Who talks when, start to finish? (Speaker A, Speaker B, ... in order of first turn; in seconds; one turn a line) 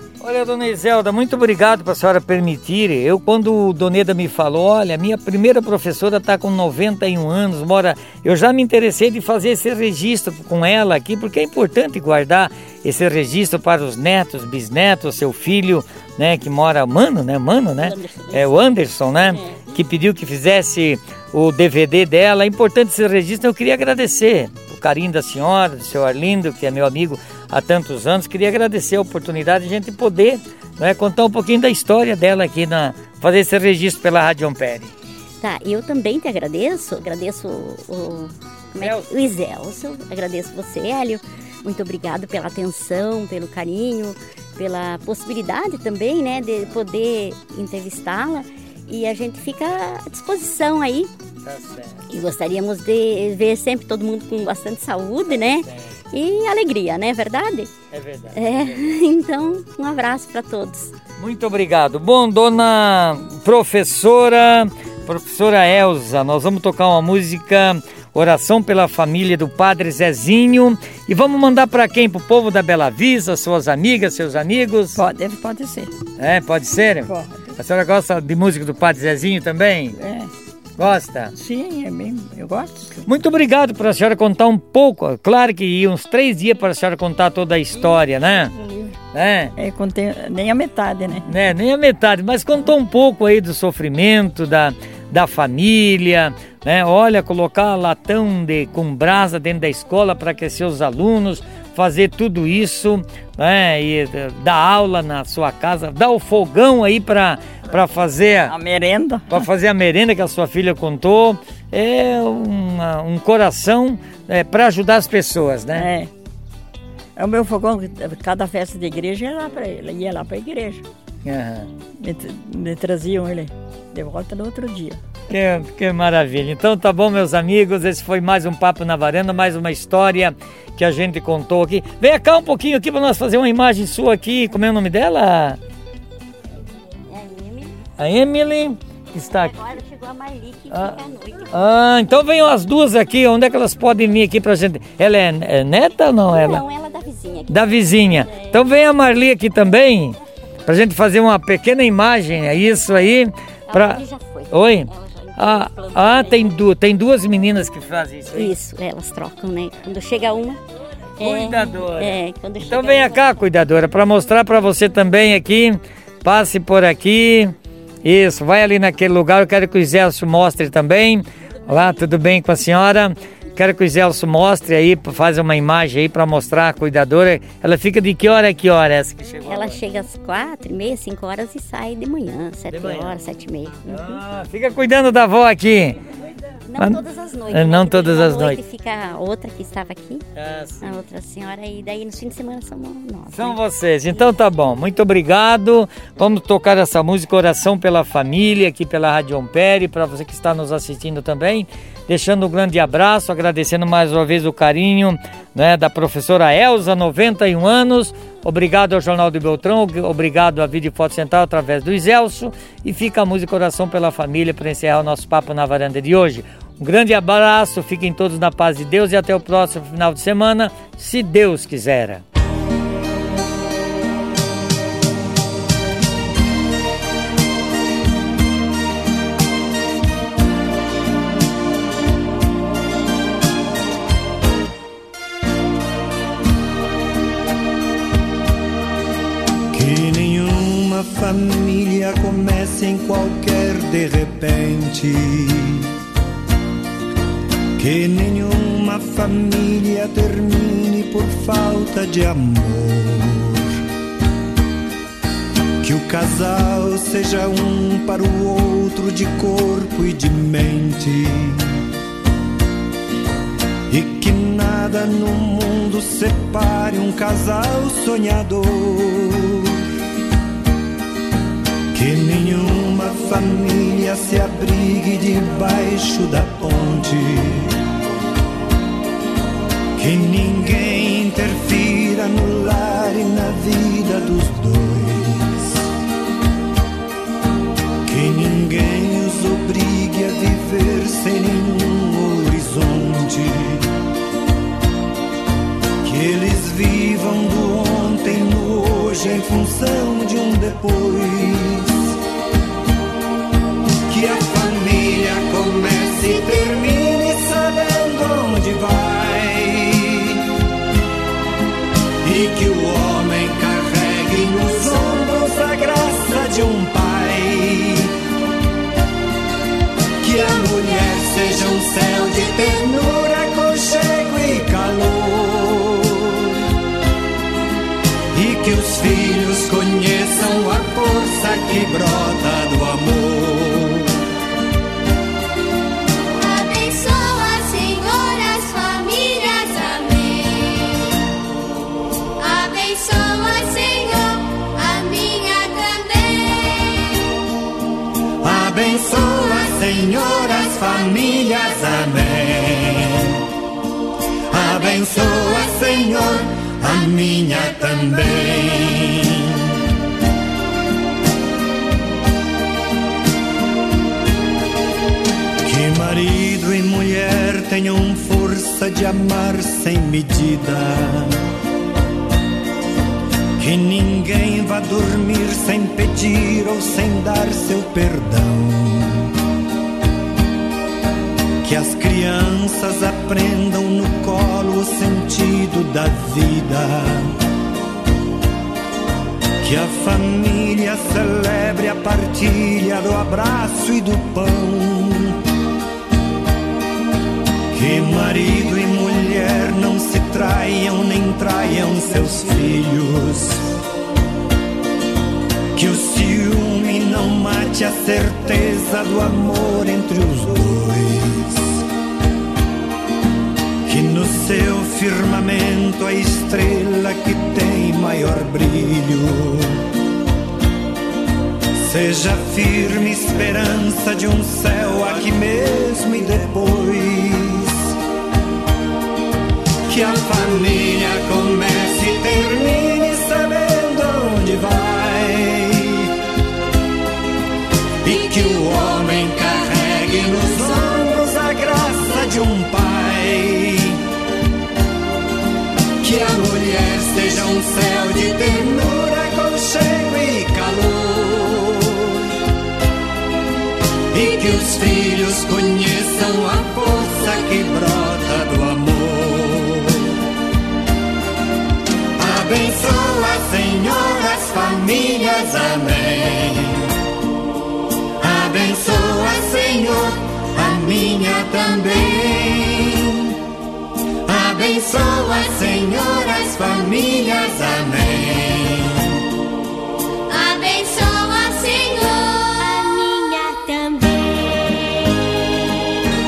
Speaker A: 0.2-34.9
Speaker B: 17.8-18.5
Speaker B: 19.2-19.8
Speaker B: 35.4-51.1
Speaker A: 38.8-39.1
Speaker A: 51.4-52.1
Speaker B: 52.1-57.7
Speaker A: 55.3-55.9
Speaker A: 57.9-58.8
Speaker B: 58.3-61.0
Speaker A: 61.2-75.0
Speaker C: 75.0-75.9
Speaker A: 76.2-80.0
Speaker C: 77.1-77.6
Speaker C: 79.9-80.3
Speaker A: 80.8-81.3
Speaker C: 81.3-83.1
Speaker A: 83.1-88.5
Speaker C: 88.6-88.9
Speaker A: 89.1-89.5
Speaker C: 89.6-91.3
Speaker A: 91.3-108.5
Speaker C: 108.5-109.5
Speaker A: 109.3-115.9
Speaker C: 115.7-116.1
Speaker C: 117.2-120.8
Speaker A: 121.2-121.7
Speaker C: 122.0-125.0
Speaker A: 125.3-135.6
Speaker B: 137.1-137.8
Speaker A: 138.0-139.6
Speaker B: 139.3-141.5
Speaker A: 140.7-141.0
Speaker A: 141.5-146.6
Speaker B: 146.3-148.6
Speaker A: 147.5-158.6
Speaker B: 153.7-156.6
Speaker B: 158.3-160.6
Speaker B: 161.2-163.4
Speaker A: 161.2-179.8
Speaker B: 179.5-184.2
Speaker A: 182.7-183.2
Speaker A: 183.9-186.0
Speaker B: 186.7-190.2
Speaker A: 186.8-188.6
Speaker A: 190.3-191.0
Speaker B: 190.8-193.6
Speaker A: 193.3-222.2
Speaker D: 239.7-245.9
Speaker D: 247.8-253.8
Speaker D: 255.8-261.7
Speaker D: 263.9-269.8
Speaker D: 271.9-277.8
Speaker D: 280.0-285.9
Speaker D: 288.1-293.9
Speaker D: 296.0-302.1
Speaker D: 304.1-310.5
Speaker D: 312.2-318.2
Speaker D: 320.2-326.6
Speaker D: 328.3-334.1
Speaker D: 336.4-340.9
Speaker E: 338.3-338.8
Speaker E: 339.6-340.1
Speaker D: 342.4-347.1
Speaker E: 345.6-346.1
Speaker D: 348.4-353.5
Speaker D: 354.5-359.7
Speaker D: 365.6-371.4
Speaker D: 373.6-379.3
Speaker D: 381.6-387.4
Speaker D: 389.6-395.4
Speaker D: 397.7-403.8
Speaker D: 405.8-411.8
Speaker D: 413.9-419.9
Speaker D: 421.8-428.0
Speaker D: 429.9-436.1
Speaker D: 438.0-444.0
Speaker D: 446.0-452.3
Speaker D: 454.1-460.2
Speaker D: 462.2-467.0
Speaker D: 468.2-473.4
Speaker D: 474.2-479.3
Speaker D: 480.3-482.3
Speaker E: 481.4-481.8
Speaker E: 482.5-484.4